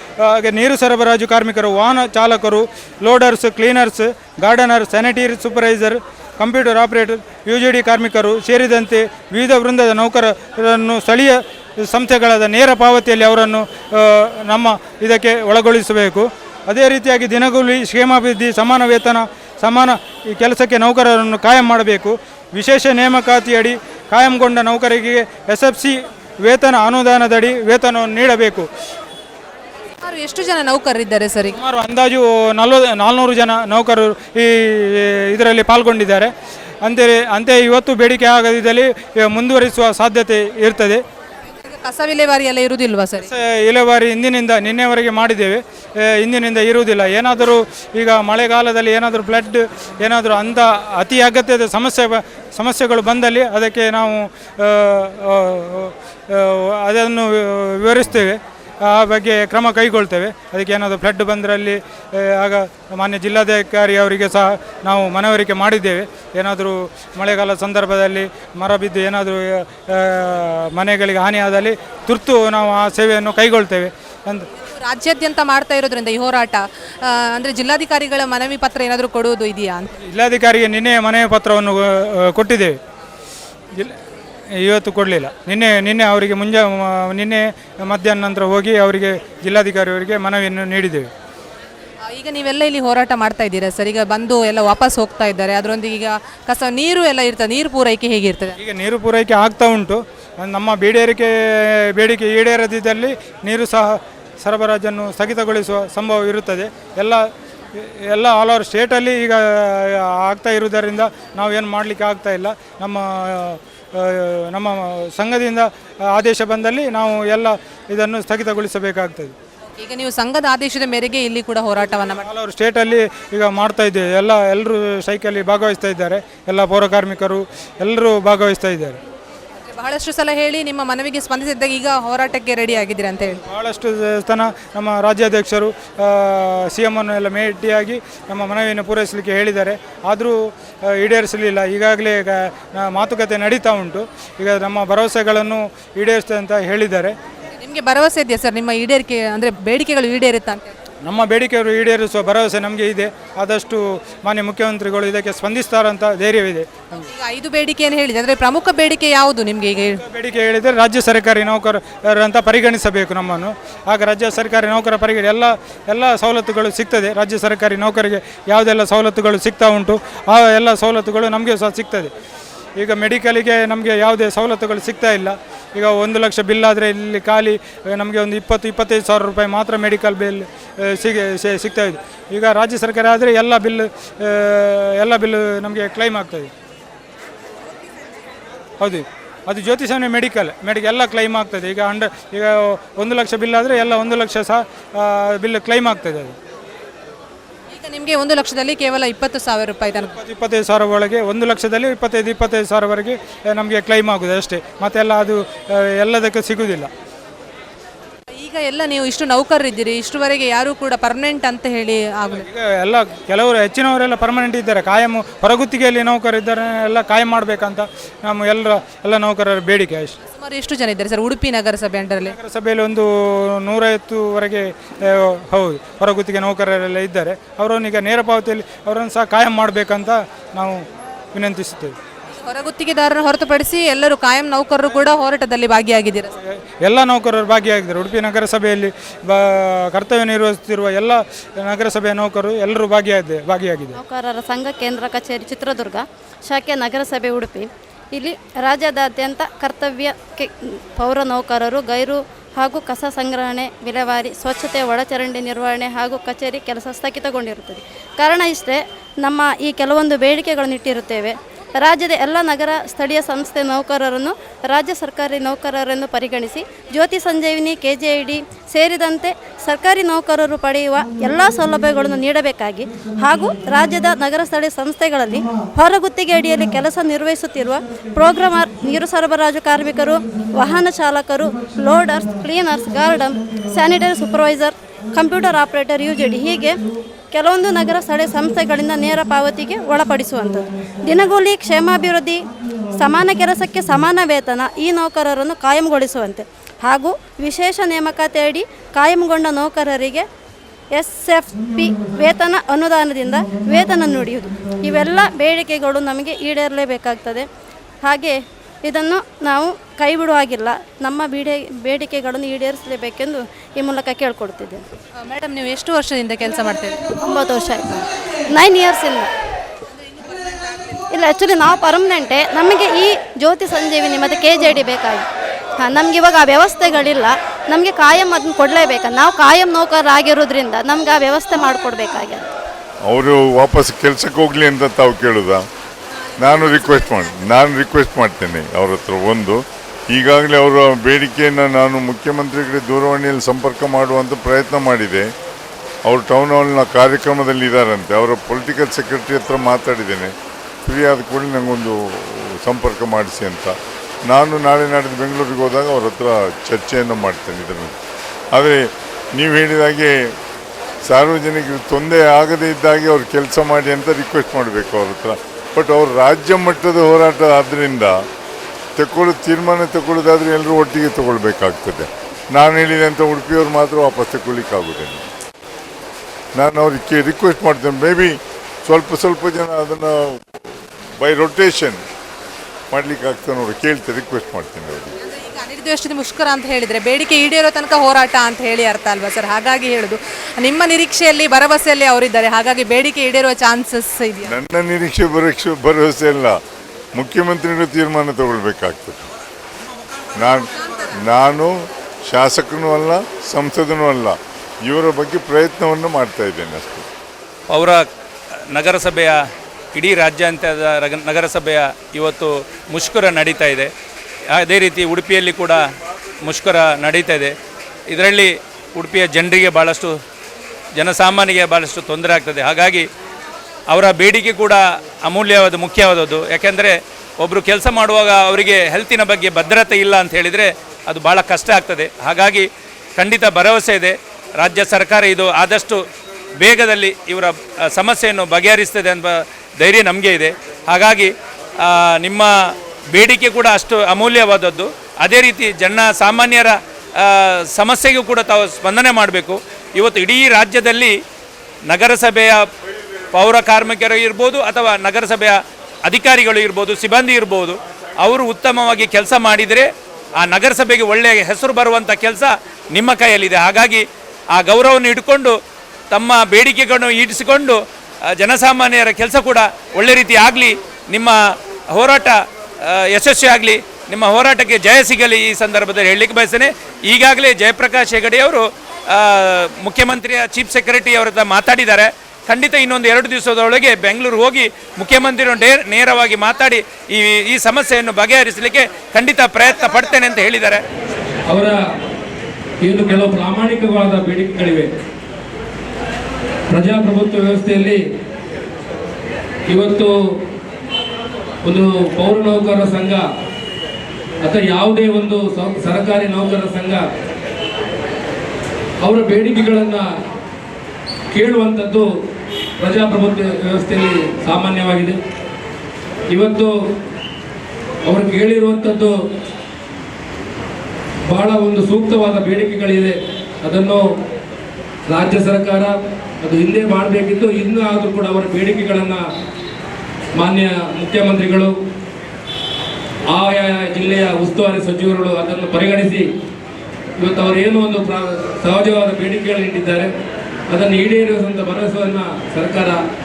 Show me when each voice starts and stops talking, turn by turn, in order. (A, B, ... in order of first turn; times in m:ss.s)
0:00.2-0:28.7 A
0:30.0-0:31.6 B
0:31.5-0:36.3 A
0:36.8-0:41.0 A
0:41.6-0:43.3 B
0:43.2-1:14.4 A
1:14.7-1:19.9 B
1:20.0-1:22.8 A
1:24.6-1:31.1 A
1:32.1-1:38.5 B
1:38.6-1:47.2 A
1:47.8-1:59.3 A
1:59.8-2:02.3 B
2:02.0-2:09.0 A
2:09.7-2:13.4 B
2:13.4-2:27.1 A
2:27.6-2:30.7 B
2:31.0-2:36.8 A
2:36.9-2:40.0 B
2:39.9-2:52.1 A
2:52.8-3:06.5 A
3:08.8-3:16.3 A
3:17.7-3:20.1 B
3:20.0-3:26.9 A
3:28.4-3:32.4 B
3:32.4-3:40.1 A
3:40.3-3:42.3 B
3:42.2-3:50.8 A
3:51.3-3:51.9 A
3:52.3-3:56.3 B
3:56.6-4:04.0 A
4:04.0-4:46.8 C
4:47.3-4:52.4 C
4:53.0-5:00.2 C
5:00.9-5:07.4 C
5:08.0-5:14.8 C
5:15.2-5:17.1 B
5:17.2-5:19.3 C
5:20.1-5:21.0 B
5:21.1-5:25.2 C
5:25.8-5:32.4 C
5:33.0-5:35.6 D
5:36.4-5:45.3 D
5:46.0-5:50.3 D
5:50.8-5:53.7 D
5:54.3-5:58.0 D
5:58.5-6:00.1 D
6:01.1-6:08.1 D
6:09.0-6:15.2 D
6:16.5-6:20.4 D
6:21.2-6:22.0 D
6:22.9-6:25.1 D
6:25.2-6:34.5 B
6:34.4-6:36.6 D
6:37.2-6:39.3 D
6:40.4-6:41.7 D
6:42.3-6:47.0 D
6:47.7-6:48.0 E
6:48.7-6:49.4 E
6:49.9-6:53.9 E
6:54.6-6:55.8 E
6:56.4-6:57.5 E
6:58.1-7:00.1 E
7:01.0-7:03.0 E
7:03.9-7:16.0 E
7:16.6-7:22.5 E
7:23.1-7:31.1 E
7:31.9-7:32.6 E
7:33.3-7:39.9 E
7:40.4-7:45.5 E
7:46.1-7:51.4 E
7:51.9-8:10.8 E
8:11.5-8:11.8 F
8:12.8-8:14.9 F
8:16.7-8:18.0 F
8:19.7-8:20.4 F
8:21.6-8:23.3 F
8:24.4-8:27.0 F
8:29.0-8:30.1 F
8:31.3-8:32.1 F
8:32.8-8:35.2 F
8:36.3-8:36.8 F
8:38.0-8:39.2 F
8:41.2-8:44.1 F
8:45.1-8:49.3 F
8:50.3-8:51.7 F
8:53.3-8:56.2 F
8:57.2-9:00.1 F
9:00.7-9:03.0 F